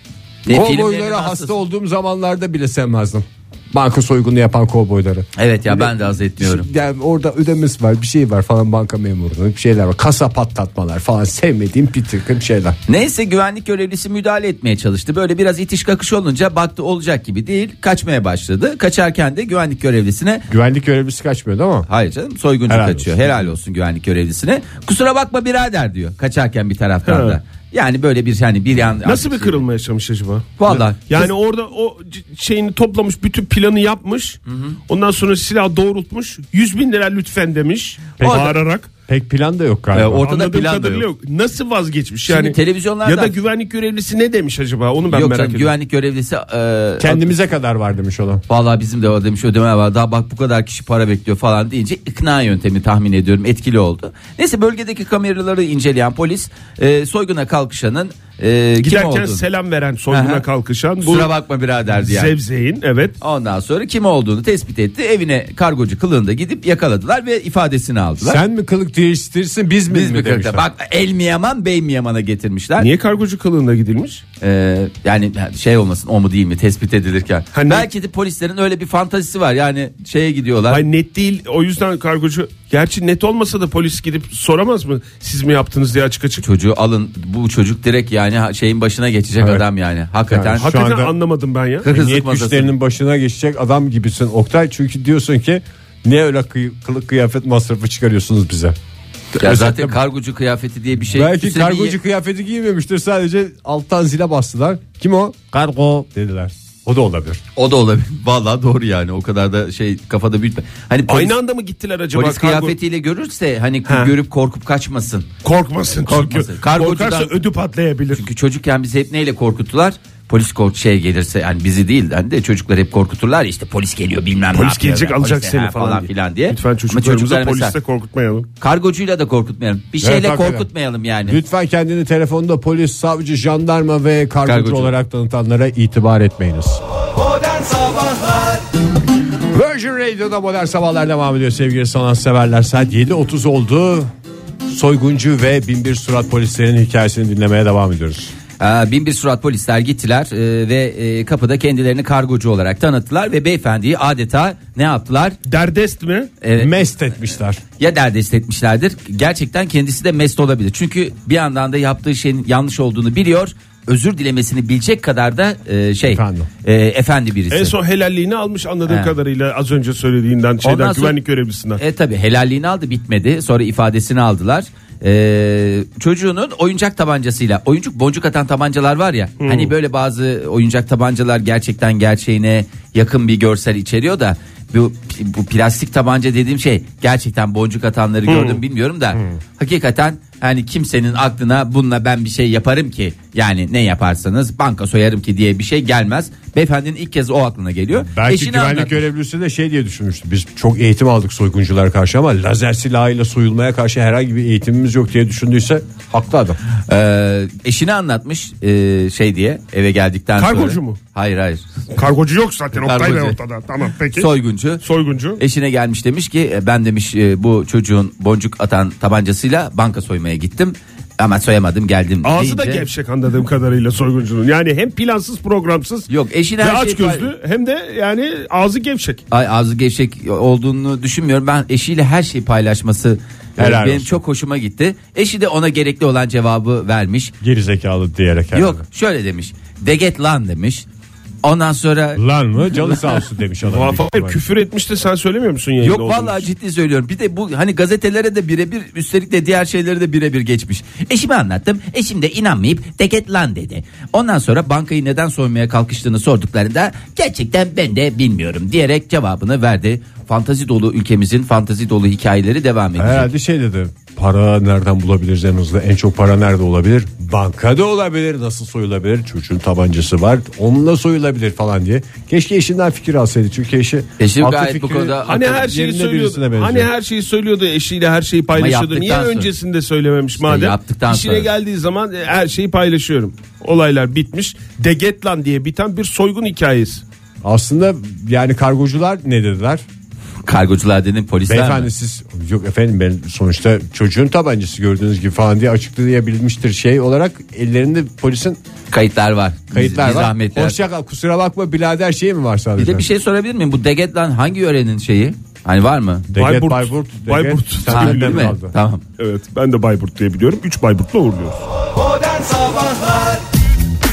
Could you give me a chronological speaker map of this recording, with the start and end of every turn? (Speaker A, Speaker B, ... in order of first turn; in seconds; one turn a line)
Speaker A: 0.5-1.5
Speaker B: 0.5-12.8
Speaker A: 5.4-6.7
Speaker A: 12.9-20.5
Speaker B: 20.5-21.9
Speaker A: 21.9-29.6
Speaker B: 22.7-23.5
Speaker C: 27.1-27.4
Speaker C: 29.1-38.9
Speaker A: 30.6-31.0
Speaker A: 34.5-34.8
Speaker A: 38.2-38.5
Speaker B: 38.2-38.5
Speaker B: 39.1-40.2
Speaker A: 39.9-41.1
Speaker C: 40.2-45.7
Speaker A: 42.3-43.4
Speaker A: 45.1-47.3
Speaker B: 47.0-48.4
Speaker A: 48.5-59.4
Speaker C: 58.8-61.3
Speaker A: 60.1-60.4
Speaker A: 61.0-62.3
Speaker C: 61.9-63.2
Speaker A: 63.2-68.4
Speaker B: 68.2-70.7
Speaker A: 69.9-72.9
Speaker C: 72.8-74.2
Speaker A: 74.4-80.8
Speaker C: 77.5-77.9
Speaker C: 80.7-86.5
Speaker A: 86.4-90.7
Speaker B: 89.4-89.7
Speaker B: 90.3-91.1
Speaker C: 90.6-91.9
Speaker A: 91.8-92.7
Speaker B: 91.9-98.8
Speaker B: 99.3-100.0
Speaker A: 99.4-102.0
Speaker B: 101.1-107.4
Speaker A: 107.6-111.4
Speaker C: 111.1-112.8
Speaker A: 112.1-115.3
Speaker C: 113.9-114.1
Speaker C: 115.4-118.2
Speaker A: 116.1-117.3
Speaker A: 118.1-127.8
Speaker C: 124.5-128.5
Speaker A: 128.6-131.4
Speaker B: 130.0-130.7
Speaker B: 131.3-136.8
Speaker A: 134.5-134.9
Speaker B: 139.5-144.1
Speaker B: 144.7-148.3
Speaker A: 148.6-155.4
Speaker C: 155.5-156.3
Speaker A: 156.4-156.7
Speaker B: 156.6-157.6
Speaker A: 157.8-167.7
Speaker B: 166.1-166.5
Speaker C: 167.5-171.8
Speaker A: 168.9-169.1
Speaker A: 170.6-171.2
Speaker A: 171.8-199.0
Speaker C: 179.4-179.7
Speaker C: 188.3-188.6
Speaker B: 189.1-189.4
Speaker B: 198.0-206.6
Speaker A: 206.9-211.6
Speaker C: 210.4-211.0
Speaker C: 212.0-215.4
Speaker A: 212.8-213.4
Speaker A: 214.1-214.8
Speaker A: 215.4-222.9
Speaker C: 222.2-226.1
Speaker A: 226.1-227.3
Speaker C: 226.6-229.2
Speaker A: 229.3-237.3
Speaker B: 233.6-234.2
Speaker B: 237.4-238.8
Speaker A: 238.5-240.9
Speaker A: 241.4-242.2
Speaker B: 242.2-244.4
Speaker C: 243.7-246.5
Speaker A: 245.8-263.3
Speaker B: 263.0-276.9
Speaker A: 274.2-275.6
Speaker C: 275.3-287.0
Speaker A: 278.5-279.5
Speaker A: 280.4-281.5
Speaker B: 287.4-289.8
Speaker A: 290.4-291.9
Speaker B: 291.5-298.6
Speaker A: 298.9-300.8
Speaker B: 299.7-303.1
Speaker A: 302.8-306.3
Speaker B: 306.3-308.7
Speaker C: 306.4-308.5
Speaker A: 307.9-309.0
Speaker C: 309.2-311.7